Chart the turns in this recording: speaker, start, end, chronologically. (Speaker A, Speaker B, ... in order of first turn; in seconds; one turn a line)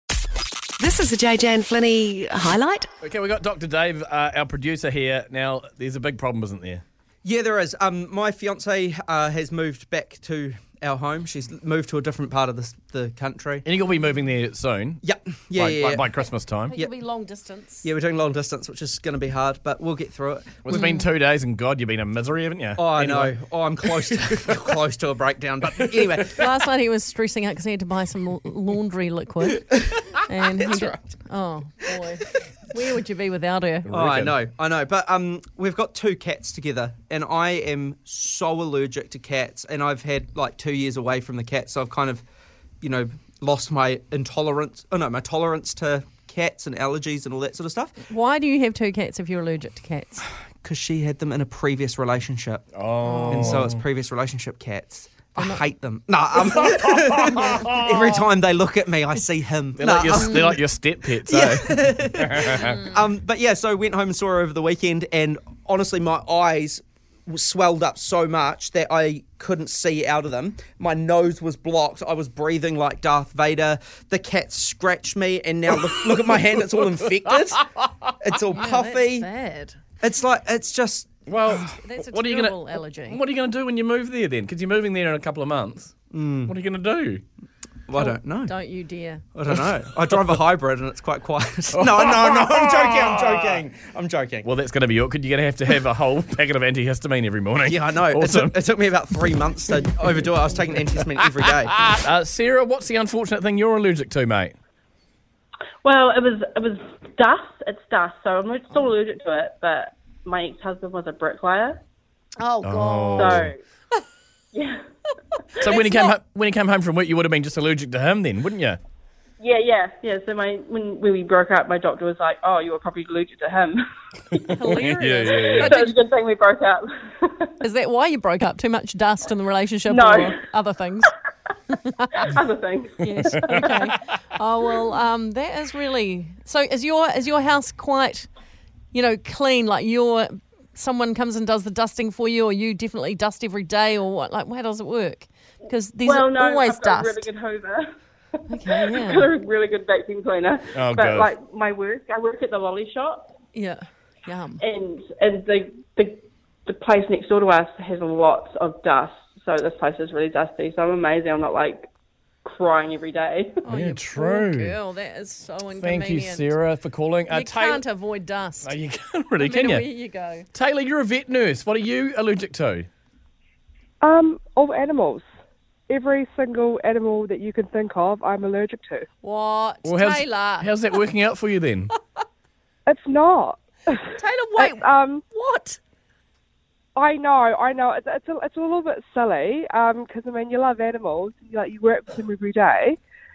Speaker A: 0.8-2.9
Speaker B: 3.0-6.8
Speaker C: 7.2-13.7
Speaker B: 13.7-15.0
Speaker C: 15.0-16.1
Speaker B: 15.5-16.8
Speaker D: 16.7-17.9
Speaker C: 17.8-20.6
Speaker B: 20.6-24.6
Speaker D: 20.7-21.1
Speaker C: 22.8-26.2
Speaker B: 25.6-26.5
Speaker D: 26.4-33.9
Speaker B: 33.9-34.4
Speaker C: 33.9-42.2
Speaker C: 42.8-47.9
Speaker D: 48.1-50.2
Speaker C: 50.6-52.7
Speaker B: 52.7-53.8
Speaker D: 53.0-53.7
Speaker C: 53.3-60.3
Speaker D: 55.4-55.6
Speaker B: 56.4-58.2
Speaker B: 59.8-62.9
Speaker D: 60.1-60.6
Speaker C: 61.2-77.6
Speaker B: 75.7-78.1
Speaker C: 78.2-79.3
Speaker D: 78.5-79.8
Speaker C: 80.0-81.1
Speaker B: 81.3-87.2
Speaker D: 81.5-83.2
Speaker C: 86.1-86.5
Speaker C: 87.9-88.5
Speaker D: 88.0-89.2
Speaker C: 89.3-94.5
Speaker B: 91.7-93.6
Speaker B: 94.4-98.6
Speaker C: 97.7-101.7
Speaker B: 101.2-104.6
Speaker E: 105.8-111.8
Speaker D: 112.4-114.0
Speaker B: 112.6-113.5
Speaker E: 113.2-113.6
Speaker E: 114.5-114.8
Speaker B: 115.6-118.8
Speaker D: 115.7-116.1
Speaker E: 119.4-124.7
Speaker D: 124.5-126.0
Speaker B: 124.7-125.7
Speaker E: 125.2-127.5
Speaker D: 127.6-131.1
Speaker E: 129.9-130.3
Speaker D: 131.7-132.3
Speaker E: 132.2-133.9
Speaker D: 133.0-138.3
Speaker D: 138.9-147.3
Speaker E: 146.1-147.8
Speaker D: 148.5-149.3
Speaker E: 148.6-153.3
Speaker B: 150.7-151.3
Speaker D: 153.5-154.6
Speaker E: 154.6-161.9
Speaker E: 162.4-163.5
Speaker D: 163.7-166.6
Speaker B: 163.7-164.8
Speaker B: 165.8-167.8
Speaker D: 167.3-168.8
Speaker B: 168.6-169.9
Speaker D: 169.4-170.5
Speaker B: 170.5-172.9
Speaker F: 174.0-175.2
Speaker F: 175.9-179.1
Speaker D: 179.2-180.9
Speaker B: 179.8-181.9
Speaker F: 182.9-185.2
Speaker D: 184.2-185.8
Speaker F: 187.0-193.0